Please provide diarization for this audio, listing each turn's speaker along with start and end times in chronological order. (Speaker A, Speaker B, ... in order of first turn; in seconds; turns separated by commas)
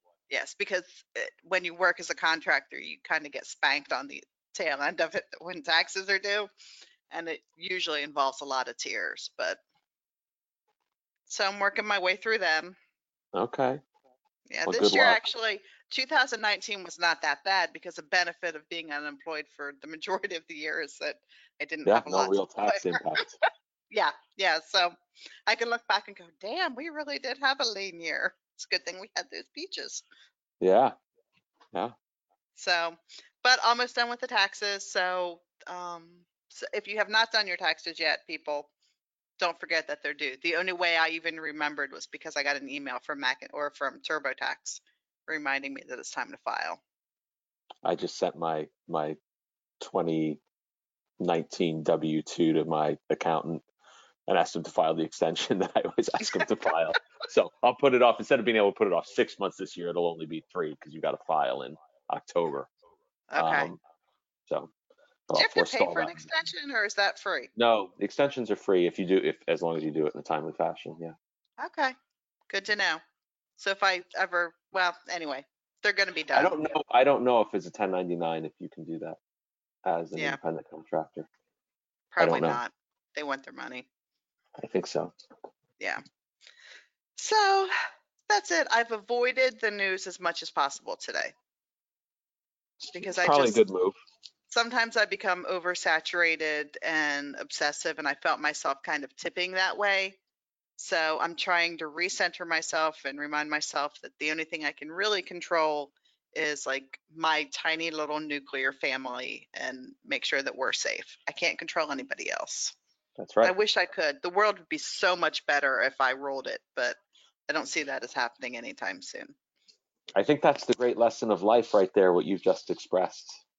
Speaker A: 0.3-6.5, Speaker A: 7.1-9.6, Speaker A: 11.3-12.8, Speaker B: 13.3-13.8, Speaker A: 14.5-23.0, Speaker B: 14.7-15.2, Speaker B: 21.9-23.3, Speaker A: 23.9-24.9, Speaker A: 25.5-30.1, Speaker B: 30.6-30.9, Speaker A: 32.5-38.7, Speaker A: 39.4-46.8, Speaker B: 47.8-49.2, Speaker B: 49.8-50.4, Speaker B: 51.2-53.6, Speaker B: 54.3-62.7, Speaker A: 63.3-63.7, Speaker B: 63.4-63.8, Speaker B: 65.3-66.2, Speaker A: 65.4-67.5, Speaker B: 67.6-71.1, Speaker A: 71.6-71.9, Speaker A: 72.5-73.0, Speaker A: 73.6-76.8, Speaker B: 76.3-79.2, Speaker B: 79.8-81.3, Speaker A: 82.1-83.9, Speaker B: 82.2-82.6, Speaker B: 84.6-85.1, Speaker A: 87.2-87.7, Speaker A: 88.3-91.3, Speaker A: 92.9-93.6, Speaker B: 93.0-94.0, Speaker A: 94.5-100.2, Speaker A: 100.8-112.8, Speaker B: 113.2-113.5, Speaker A: 113.4-119.3, Speaker B: 120.2-123.4